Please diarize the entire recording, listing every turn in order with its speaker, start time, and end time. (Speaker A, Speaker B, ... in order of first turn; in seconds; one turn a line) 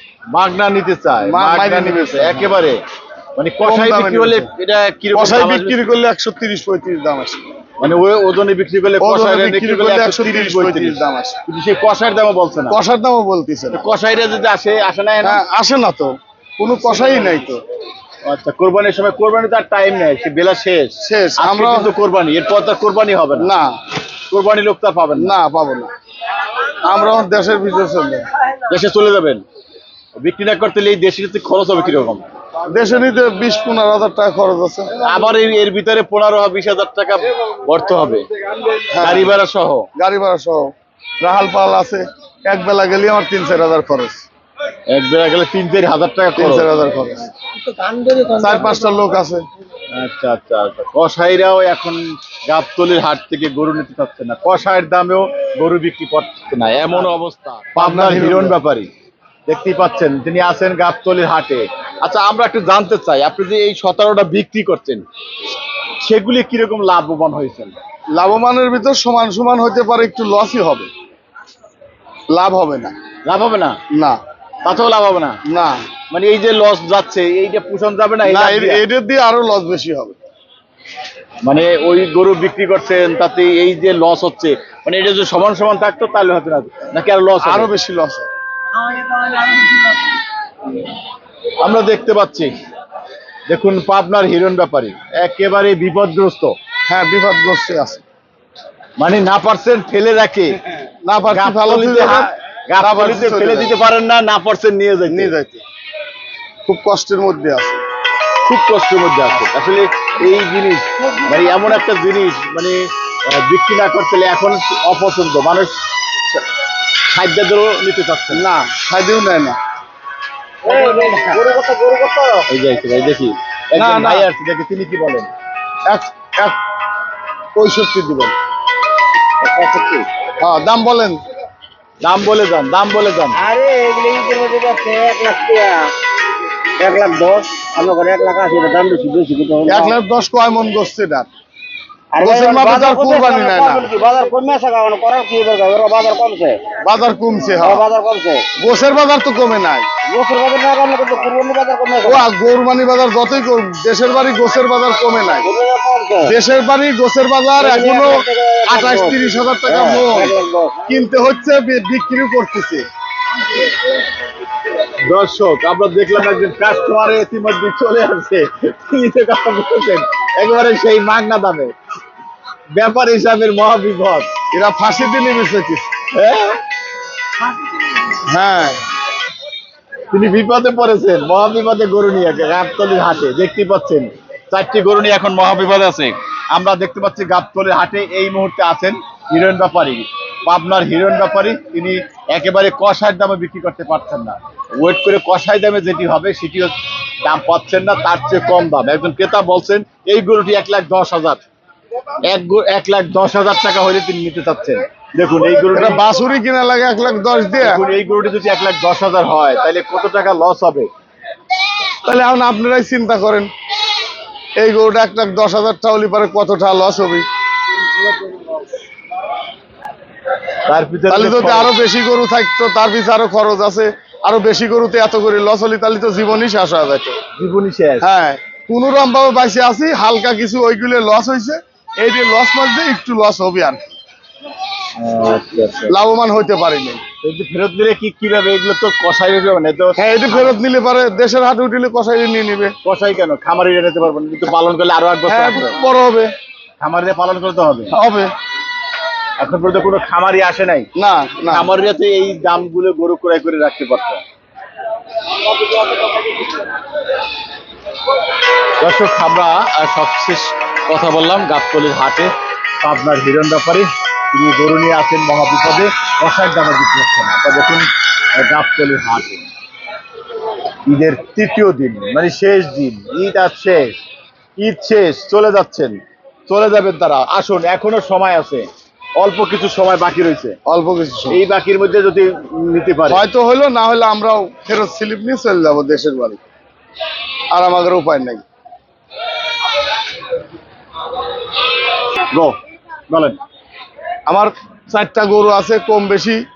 Speaker A: 0.3-2.8
Speaker B: 1.2-2.5
Speaker A: 3.4-5.8
Speaker B: 3.6-4.5
Speaker B: 5.1-7.4
Speaker A: 7.8-12.8
Speaker B: 9.0-11.4
Speaker B: 12.7-13.9
Speaker A: 13.7-15.4
Speaker B: 15.2-17.6
Speaker A: 16.8-17.4
Speaker A: 18.2-23.5
Speaker B: 21.0-21.9
Speaker B: 23.4-23.7
Speaker A: 24.3-25.3
Speaker B: 25.2-25.9
Speaker B: 26.8-28.2
Speaker A: 28.7-29.4
Speaker A: 30.2-32.2
Speaker B: 32.7-34.9
Speaker A: 35.0-38.3
Speaker A: 38.8-39.9
Speaker B: 38.9-39.3
Speaker B: 40.0-44.2
Speaker A: 44.9-46.7
Speaker B: 46.4-47.2
Speaker C: 47.8-48.2
Speaker B: 48.3-49.4
Speaker A: 49.9-58.9
Speaker B: 57.8-58.6
Speaker A: 59.5-65.0
Speaker A: 66.0-67.8
Speaker B: 68.2-70.9
Speaker B: 72.3-72.9
Speaker A: 73.2-73.8
Speaker B: 73.9-74.2
Speaker A: 74.6-75.4
Speaker B: 75.4-75.8
Speaker A: 76.1-78.8
Speaker B: 78.2-80.2
Speaker A: 81.4-87.7
Speaker B: 87.4-88.3
Speaker A: 89.1-89.7
Speaker A: 91.6-92.5
Speaker A: 93.5-96.5
Speaker B: 96.9-98.0
Speaker A: 99.0-100.6
Speaker B: 101.0-103.7
Speaker A: 101.3-105.3
Speaker B: 105.1-105.6
Speaker B: 106.7-107.8
Speaker A: 108.4-115.8
Speaker A: 117.1-118.4
Speaker B: 118.3-119.6
Speaker C: 120.6-122.5
Speaker A: 122.5-125.3
Speaker B: 123.8-124.3
Speaker B: 125.9-126.6
Speaker B: 127.5-128.3
Speaker A: 129.4-130.1
Speaker B: 130.4-131.2
Speaker A: 132.0-133.4
Speaker C: 133.3-135.9
Speaker C: 136.8-140.0
Speaker B: 139.7-141.3
Speaker C: 142.1-146.8
Speaker B: 142.2-143.9
Speaker B: 146.8-147.8
Speaker C: 147.5-148.5
Speaker B: 148.6-149.9
Speaker C: 150.0-152.3
Speaker B: 152.0-155.5
Speaker C: 155.4-156.3
Speaker B: 156.2-160.3
Speaker C: 157.6-160.8
Speaker B: 160.8-162.8
Speaker A: 165.1-171.7
Speaker A: 172.8-174.3
Speaker B: 174.5-175.9
Speaker A: 176.1-176.6
Speaker B: 178.3-178.8
Speaker A: 180.1-201.4
Speaker A: 202.2-206.0
Speaker B: 205.7-207.8
Speaker A: 207.6-210.9
Speaker B: 212.0-213.5
Speaker B: 214.6-217.2
Speaker A: 220.7-221.8
Speaker B: 221.1-227.2
Speaker A: 227.4-228.1
Speaker B: 228.0-233.9
Speaker A: 235.0-235.9
Speaker B: 235.9-237.0
Speaker A: 237.2-240.6
Speaker B: 240.0-242.7
Speaker A: 242.8-245.8
Speaker B: 245.3-246.3
Speaker A: 246.8-247.9
Speaker B: 247.9-248.3
Speaker A: 249.4-250.9
Speaker B: 251.0-251.7
Speaker A: 251.5-254.2
Speaker A: 258.8-269.5
Speaker A: 270.9-274.0
Speaker A: 274.6-280.6
Speaker B: 280.7-281.4
Speaker A: 281.3-283.2
Speaker B: 283.1-286.4
Speaker B: 287.5-288.4
Speaker A: 292.3-292.6
Speaker A: 293.1-293.4
Speaker B: 294.3-296.4